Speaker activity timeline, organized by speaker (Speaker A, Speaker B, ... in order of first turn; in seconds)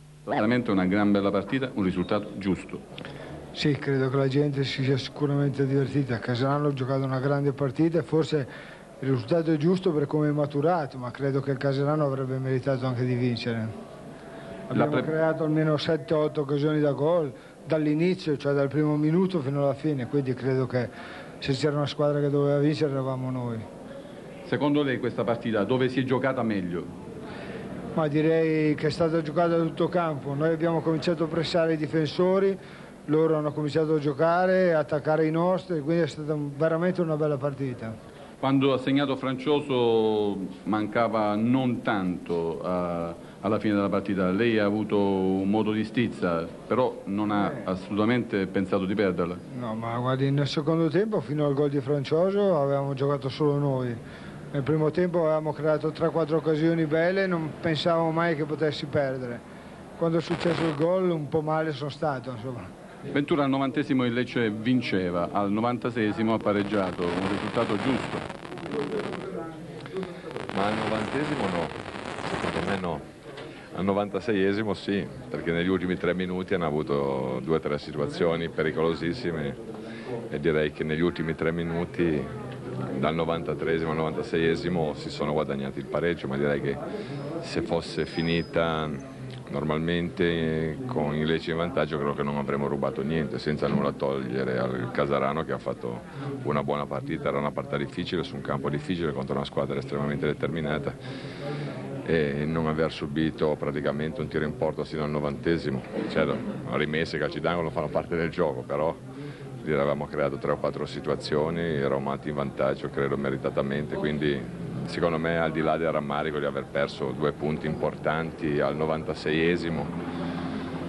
Speaker A: 0.3-2.8, 14.7-15.1, 24.4-26.9, 38.4-49.4, 63.1-68.3
Speaker B: 3.5-8.5, 9.0-13.7, 14.7-23.6, 28.0-38.0, 49.5-54.0, 54.5-59.4, 60.0-62.7
Speaker C: 70.5-71.7, 72.3-73.1, 73.7-79.6, 80.3-82.3, 82.9-86.8, 87.4-101.0, 102.0-109.0, 109.6-119.9